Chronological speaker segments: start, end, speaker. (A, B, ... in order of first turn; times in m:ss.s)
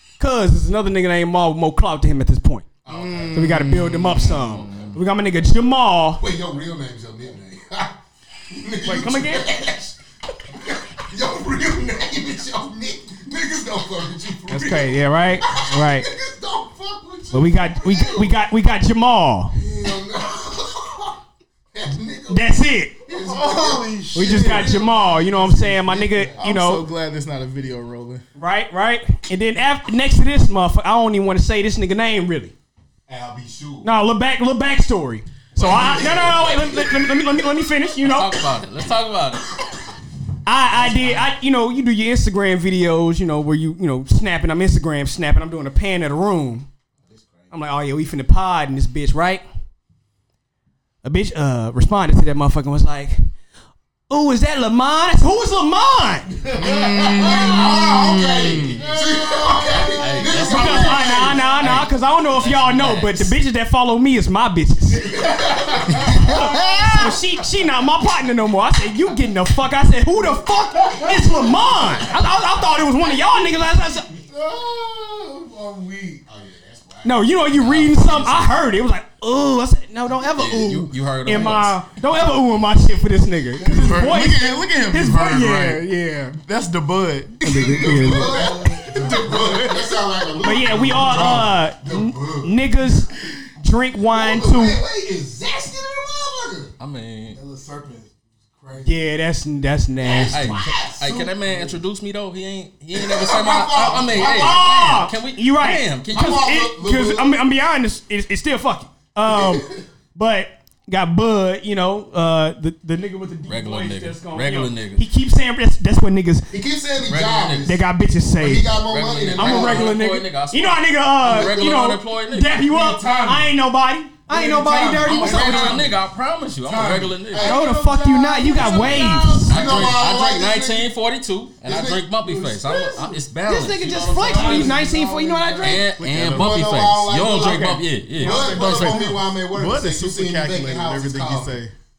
0:00.2-0:02.7 A
0:02.8-0:03.6 B
0:02.9-0:04.5 C
0:03.3-0:06.2 A
0:06.2-0:08.0 B
0:08.5-0:10.0 B
0:08.8-0:09.5 A
0:10.5-0:18.3 B
0:14.5-0:16.1 A
0:17.3-0:19.6 A
0:19.5-0:21.2 B
0:21.7-0:26.4 B
0:22.3-0:22.9 A
0:23.1-0:24.7 C
0:24.1-0:26.8 A
0:26.4-0:28.2 C
0:28.4-0:32.5 A
0:33.1-0:33.9 B
0:33.8-0:38.4 A
0:35.6-0:36.9 B
0:35.7-0:36.0 C
0:38.0-0:39.7 D
0:40.4-0:46.7 A
0:40.8-0:41.2 B
0:47.0-0:47.5 B
0:47.5-0:49.4 A
0:51.0-0:53.2 A
0:54.1-0:56.3 A
0:56.4-0:57.6 E
0:56.6-1:01.8 B
0:56.6-0:58.8 C
0:58.8-1:00.7 E
0:59.7-1:03.3 D
1:00.4-1:05.2 A
1:01.4-1:01.7 E
1:05.0-1:06.7 E
1:05.2-1:06.0 B
1:06.0-1:07.1 C
1:06.1-1:14.1 A
1:10.3-1:12.2 E
1:13.1-1:13.5 E
1:14.0-1:16.2 E
1:16.3-1:17.2 B
1:17.0-1:26.3 A
1:17.6-1:18.5 D
1:20.3-1:21.8 D
1:23.6-1:24.1 E
1:23.6-1:30.0 C
1:27.4-1:28.4 A
1:27.6-1:32.6 B
1:27.9-1:29.7 E
1:30.4-1:34.8 A
1:34.1-1:36.7 B
1:36.8-1:37.4 D
1:37.3-1:38.9 E
1:38.8-1:40.4 A
1:40.0-1:41.3 B
1:40.0-1:46.4 D
1:42.9-1:44.9 B
1:44.1-1:56.5 A
1:46.1-1:47.4 B
1:49.3-1:49.8 B
1:53.5-1:55.0 D
1:56.5-1:57.8 B
1:57.0-1:57.7 D
1:57.6-1:58.7 A
1:58.4-2:00.0 B
1:58.8-2:02.5 D
1:59.3-2:05.8 A
2:01.2-2:01.8 B
2:02.5-2:03.5 E
2:04.3-2:05.9 E
2:05.0-2:07.5 D
2:06.6-2:09.9 E
2:07.3-2:07.6 B
2:07.4-2:09.6 A
2:08.5-2:10.9 B
2:09.5-2:14.8 D
2:11.6-2:12.1 B
2:12.2-2:13.2 E
2:13.4-2:15.8 A
2:14.2-2:16.0 E
2:15.6-2:18.5 D
2:16.0-2:16.6 C
2:16.3-2:21.6 B
2:18.2-2:19.1 A
2:18.4-2:21.7 C